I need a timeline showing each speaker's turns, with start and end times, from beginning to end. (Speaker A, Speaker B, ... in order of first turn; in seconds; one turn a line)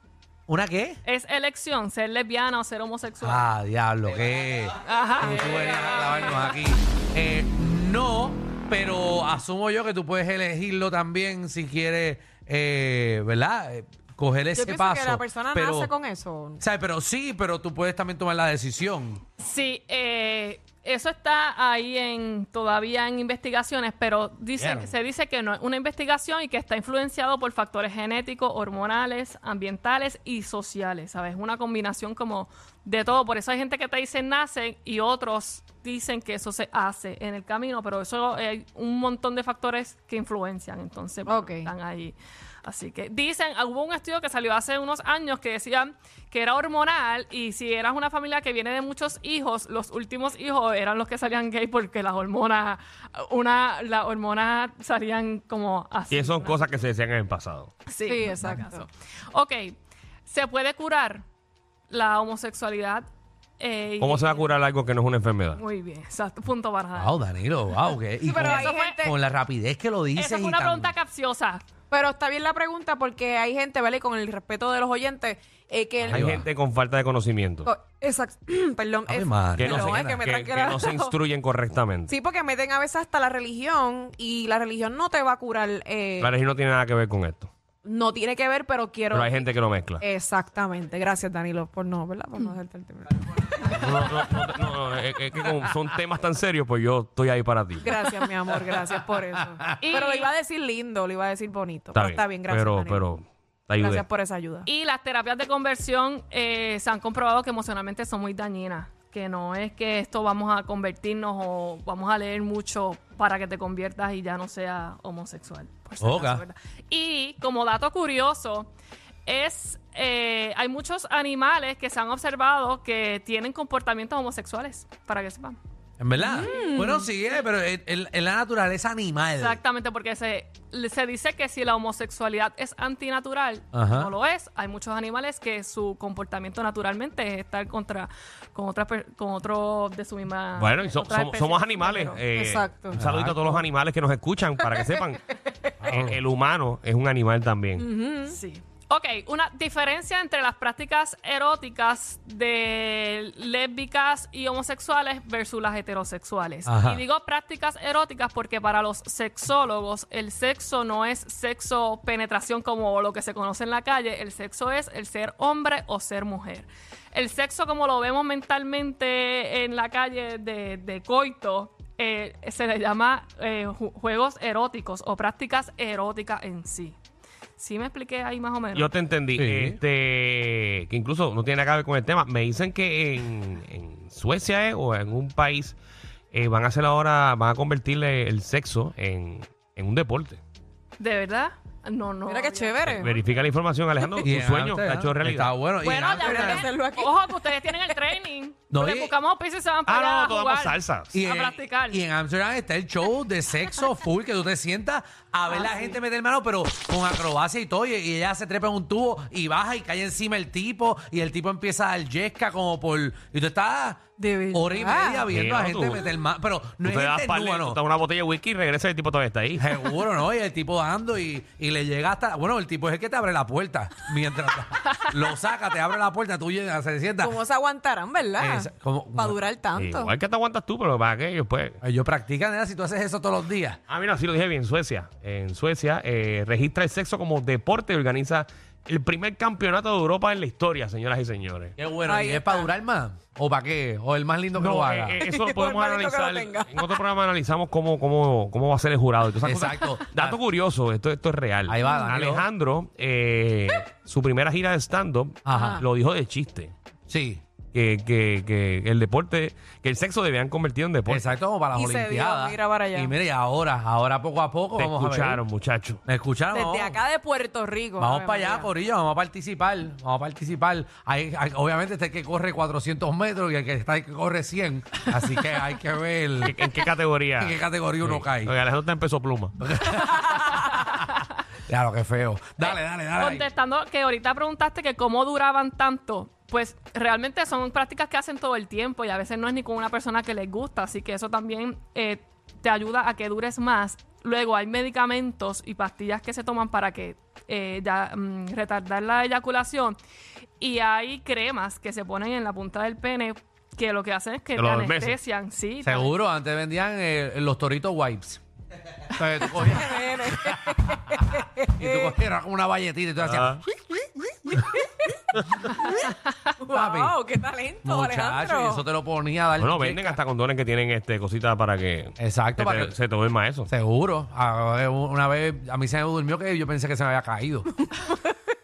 Speaker A: 0.5-1.0
Speaker B: 1.0-3.5
Speaker A: 3.2-15.9
Speaker B: 4.8-6.5
Speaker C: 14.5-16.6
Speaker A: 16.6-19.2
Speaker B: 19.4-56.6
Speaker A: 24.6-24.9
Speaker C: 41.2-41.7
Speaker D: 56.1-57.7
Speaker B: 57.9-61.2
Speaker C: 58.0-58.9
Speaker B: 61.9-63.0
Speaker B: 63.6-64.5
Speaker D: 64.0-65.6
Speaker B: 65.5-67.2
Speaker A: 66.9-70.9
Speaker C: 68.2-69.1
Speaker B: 68.2-69.1
Speaker B: 70.1-71.6
Speaker C: 71.9-76.4
Speaker A: 76.0-76.4
Speaker D: 76.1-77.7
Speaker C: 77.6-81.2
Speaker A: 79.1-80.2
Speaker D: 79.5-82.1
Speaker C: 82.1-86.3
Speaker D: 86.2-87.5
Speaker C: 87.8-89.4
Speaker D: 89.1-90.0
Speaker C: 90.0-93.2
Speaker D: 93.6-97.9
Speaker C: 97.8-103.1
Speaker B: 99.8-100.3
Speaker D: 101.9-104.0
Speaker C: 103.8-104.7
Speaker B: 104.6-118.7
Speaker A: 116.0-116.4
Speaker B: 119.2-125.6
Speaker A: 126.0-129.6
Speaker C: 126.2-127.1
Speaker B: 126.4-126.8
Speaker B: 129.4-142.2
Speaker A: 133.7-134.1
Speaker D: 140.6-145.3
Speaker C: 142.3-143.0
Speaker A: 142.9-143.7
Speaker A: 145.8-146.2
Speaker D: 145.8-147.9
Speaker C: 147.8-148.4
Speaker B: 148.3-177.0
Speaker A: 156.7-157.0
Speaker B: 177.6-178.9
Speaker D: 178.7-185.8
Speaker A: 179.3-179.8
Speaker D: 186.3-190.4
Speaker B: 191.0-193.1
Speaker C: 192.3-193.3
Speaker D: 193.0-195.6
Speaker A: 194.2-196.7
Speaker B: 195.8-202.0
Speaker C: 196.0-198.1
Speaker A: 198.7-199.1
Speaker D: 199.9-201.1
Speaker A: 201.1-217.8
Speaker C: 205.5-206.0
Speaker C: 214.2-215.2
Speaker D: 215.3-216.1
Speaker D: 216.8-219.8
Speaker A: 219.6-227.4
Speaker C: 227.2-230.1
Speaker A: 228.4-229.4
Speaker D: 229.8-231.8
Speaker A: 231.8-233.8
Speaker D: 233.9-241.8
Speaker A: 241.8-245.2
Speaker C: 242.0-242.7
Speaker D: 244.6-256.7
Speaker C: 245.2-247.0
Speaker A: 249.4-250.4
Speaker A: 251.7-252.5
Speaker A: 255.4-255.8
Speaker C: 255.5-255.8
Speaker A: 257.1-257.4
Speaker D: 257.7-261.3
Speaker A: 261.1-265.4
Speaker C: 261.7-263.1
Speaker D: 264.8-266.0
Speaker A: 266.1-267.0
Speaker C: 266.5-268.7
Speaker A: 268.0-276.6
Speaker D: 276.4-279.5
Speaker A: 277.4-278.6
Speaker A: 279.6-281.0
Speaker A: 281.7-283.4
Speaker B: 282.6-300.0
Speaker B: 300.6-306.1
Speaker D: 304.6-305.1
Speaker A: 305.8-308.4
Speaker A: 309.1-310.6
Speaker C: 309.5-312.2
Speaker A: 311.7-313.6
Speaker D: 313.2-313.6
Speaker C: 314.5-315.2
Speaker D: 315.3-315.7
Speaker C: 315.8-318.8
Speaker A: 316.7-317.2
Speaker A: 317.8-320.2
Speaker D: 319.6-323.7
Speaker A: 322.2-322.9
Speaker A: 323.7-327.7
Speaker C: 327.9-328.3